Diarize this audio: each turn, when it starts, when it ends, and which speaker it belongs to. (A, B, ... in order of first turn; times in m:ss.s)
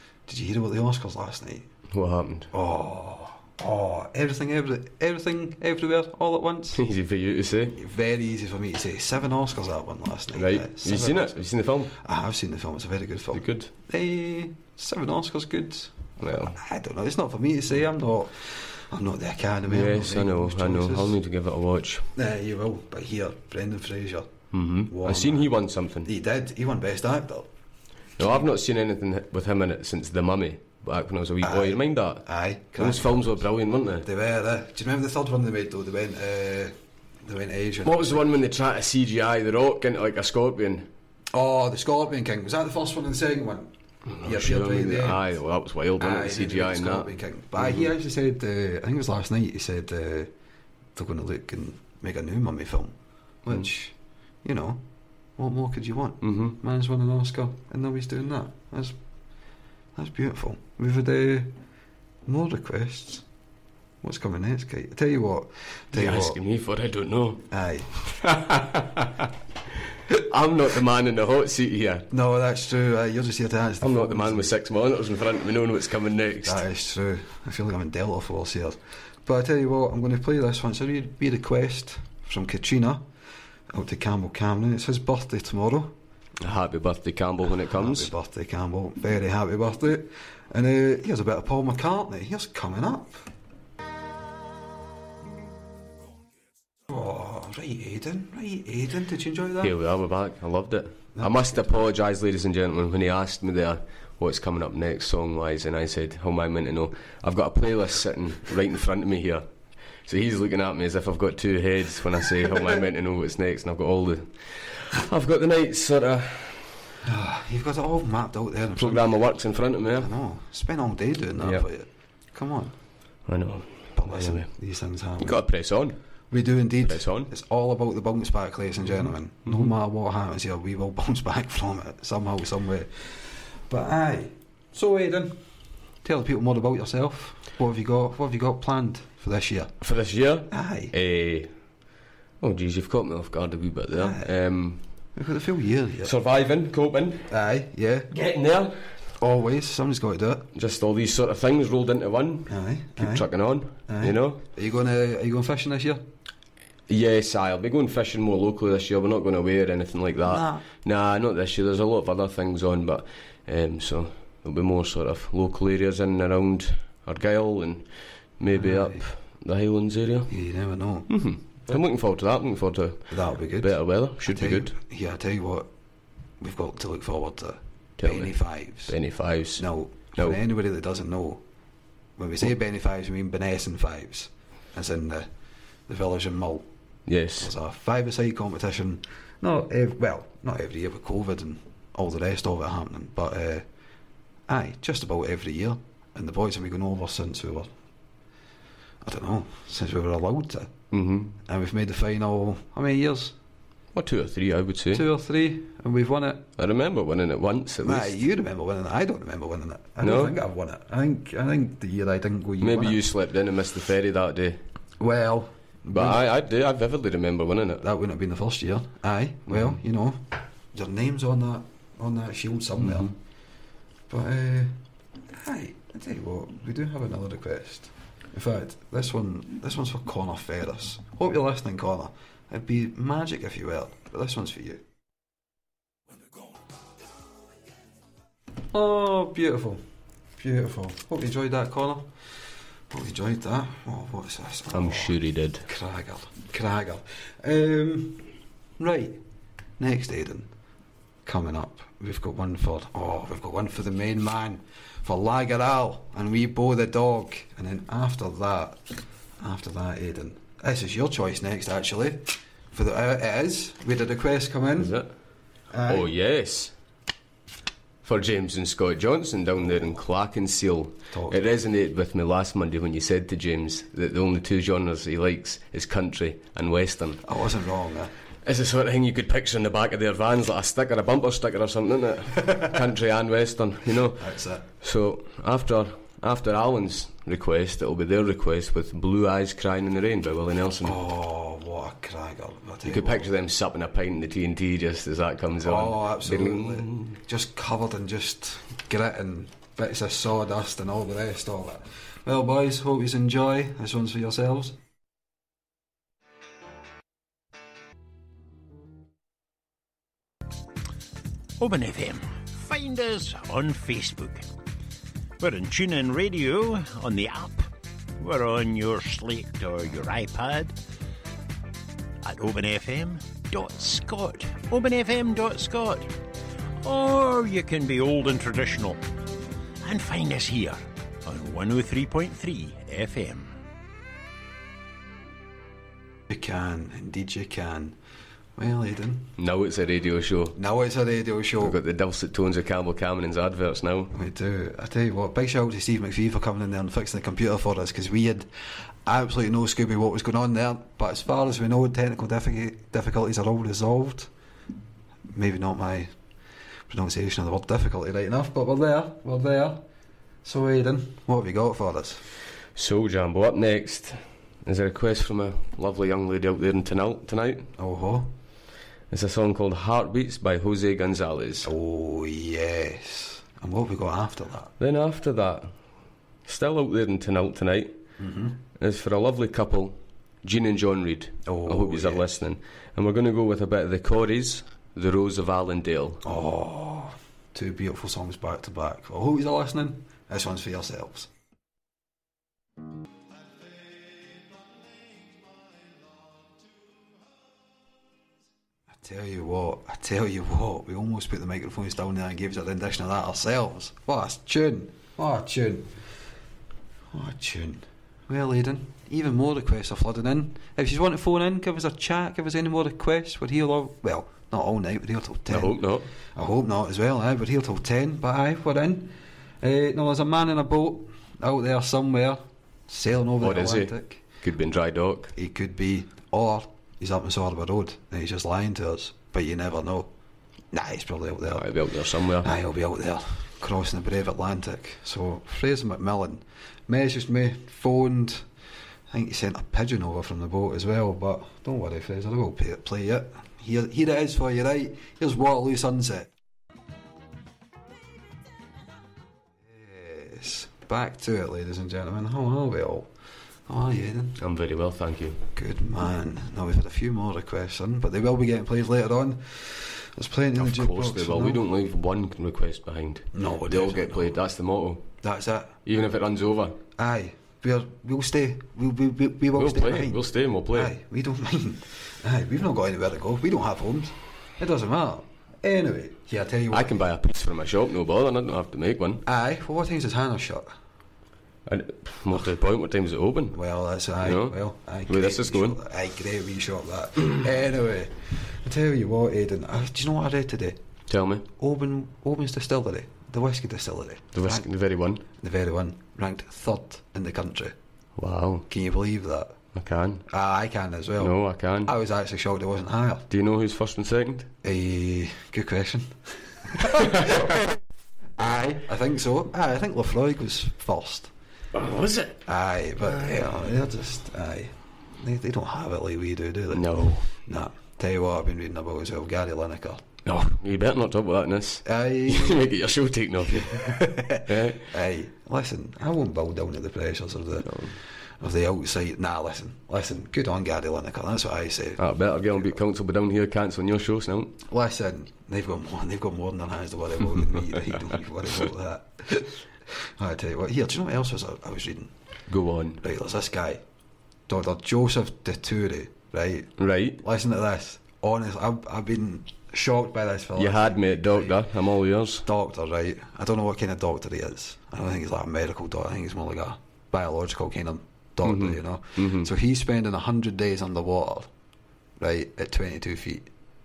0:00.2-0:01.7 A
0:01.9-0:02.5 B
0:02.5-0:06.8 A
0:06.8-0:07.8 B
0:07.7-0:11.3 A
0:10.4-0:11.9 B
0:11.9-0:21.2 A
0:13.3-0:13.7 B
0:16.2-0:16.6 B
0:19.7-0:22.1 B
0:22.1-0:24.3 A
0:24.5-0:26.1 B
0:24.9-0:25.5 A
0:26.0-0:27.5 A
0:28.2-0:32.2 B
0:31.4-0:33.4 A
0:32.8-0:34.0 B
0:34.0-0:38.3 A
0:37.8-0:40.9 B
0:41.3-0:45.2 A
0:44.1-0:47.9 B
0:46.0-0:50.3 A
0:50.9-0:54.8 A
0:55.4-0:59.0 A
0:56.2-0:56.6 B
0:59.9-1:01.5 A
1:02.2-1:03.2 A
1:04.0-1:06.4 A
1:05.9-1:07.4 B
1:07.5-1:07.9 A
1:08.0-1:09.3 B
1:10.1-1:12.1 B
1:12.1-1:14.5 A
1:13.8-1:16.6 B
1:16.4-1:23.0 A
1:23.7-1:25.9 A
1:26.4-1:28.1 B
1:27.7-1:33.3 A
1:36.9-1:39.7 A
1:39.6-1:49.4 B
1:41.2-1:41.6 A
1:50.0-1:56.8 B
1:57.0-1:59.2 A
1:58.8-2:00.1 B
2:00.0-2:02.7 A
2:01.4-2:01.6 B
2:03.3-2:04.5 B
2:04.0-2:05.4 A
2:05.2-2:06.0 B
2:06.3-2:15.4 A
2:06.8-2:07.3 B
2:09.0-2:09.7 B
2:16.0-2:19.7 A
2:19.8-2:21.5 B
2:20.5-2:20.9 A
2:22.4-2:24.8 B
2:23.9-2:24.3 A
2:25.2-2:26.1 A
2:26.0-2:27.2 B
2:27.3-2:28.1 A
2:28.1-2:28.8 B
2:29.2-2:30.4 A
2:30.5-2:34.4 B
2:32.5-2:33.3 A
2:33.9-2:36.0 A
2:36.9-2:47.8 B
2:40.2-2:40.6 A
2:48.4-2:50.3 B
2:48.5-2:49.0 A
2:50.3-2:51.1 A
2:51.1-2:54.7 B
2:53.1-2:55.7 A
2:56.4-2:58.9 A
2:58.0-2:58.3 B
2:58.8-2:59.6 B
2:59.6-3:01.4 A
3:02.2-3:05.3 A
3:05.9-3:06.7 A
3:07.1-3:07.5 B
3:07.4-3:13.6 A
3:14.5-3:17.7 A
3:19.0-3:20.7 A
3:20.9-3:21.3 B
3:21.4-3:23.4 A
3:23.9-3:25.1 B
3:24.9-3:26.5 A
3:26.6-3:28.2 B
3:27.8-3:33.0 A
3:30.0-3:30.4 B
3:32.6-3:34.6 B
3:35.0-3:36.2 A
3:35.9-3:37.8 B
3:37.8-3:40.2 A
3:39.5-3:39.8 B
3:40.7-3:43.1 A
3:42.8-3:43.1 B
3:44.1-3:44.8 A
3:45.3-3:54.8 A
3:58.7-3:59.8 A
4:00.4-4:02.1 A
4:02.9-4:09.2 A
4:04.7-4:05.7 B
4:09.8-4:10.5 A
4:11.2-4:18.8 A
4:19.4-4:24.9 A
4:24.8-4:25.1 B
4:25.7-4:26.1 A
4:25.9-4:26.7 B
4:28.0-4:37.2 B
4:31.1-4:31.4 A
4:37.2-4:38.1 A
4:38.4-4:44.3 B
4:44.2-4:44.6 A
4:44.8-4:51.0 B
4:50.8-4:53.3 A
4:52.9-4:57.2 B
4:55.6-5:04.8 A
5:11.6-5:14.5 C
5:15.4-5:20.7 C
5:22.2-5:26.2 C
5:26.8-5:29.0 C
5:29.8-5:33.5 C
5:36.3-5:38.0 A
5:38.6-5:39.3 A
5:39.4-5:40.6 B
5:40.6-5:41.8 A
5:41.6-5:44.1 B
5:44.1-5:48.5 A
5:49.0-5:54.3 A
5:55.3-5:56.1 A
5:56.9-5:59.8 A
6:00.4-6:02.2 A
6:02.8-6:07.7 B
6:07.8-6:08.3 A
6:09.1-6:11.7 B
6:11.6-6:14.7 A
6:14.8-6:15.7 B
6:16.4-6:17.9 B
6:18.2-6:18.6 A
6:18.8-6:26.2 B
6:21.4-6:22.2 A
6:26.2-6:31.3 A
6:38.9-6:45.9 A
6:47.1-6:55.8 A
6:55.5-6:56.1 B
6:56.3-7:04.2 A
7:03.4-7:05.3 B
7:05.3-7:10.1 A
7:10.7-7:11.7 A
7:11.5-7:12.5 B
7:12.4-7:18.4 A
7:19.1-7:26.3 A
7:29.6-7:33.1 A
7:33.7-7:34.4 A
7:34.4-7:35.4 B
7:35.5-7:41.6 A
7:40.6-7:45.0 B
7:43.3-7:44.4 A
7:45.2-7:45.7 A
7:45.8-7:46.8 B
7:47.0-7:57.0 A
7:49.5-7:50.9 B
7:56.7-7:59.2 B
7:59.2-8:00.7 A
8:01.7-8:03.6 B
8:03.5-8:10.8 A
8:04.2-8:05.8 B
8:11.1-8:11.5 B
8:11.6-8:14.6 A
8:14.3-8:15.2 B
8:15.4-8:17.7 A
8:18.2-8:18.6 B
8:18.7-8:19.5 A
8:19.7-8:20.2 B
8:20.3-8:23.3 A
8:21.2-8:21.9 B
8:23.3-8:24.5 B
8:24.6-8:27.5 A
8:28.4-8:31.3 A
8:31.7-8:32.4 B
8:32.4-8:40.0 A
8:36.7-8:37.3 B
8:40.2-8:44.9 B
8:41.8-8:42.7 A
8:43.5-8:52.0 A
8:47.7-8:47.9 B
8:52.0-8:54.6 B
8:54.6-9:02.1 A
9:02.5-9:03.0 B
9:03.0-9:03.8 A
9:04.5-9:11.6 A
9:06.8-9:07.2 B
9:10.6-9:12.4 B
9:12.4-9:21.5 A
9:18.4-9:19.5 B
9:22.2-9:23.5 A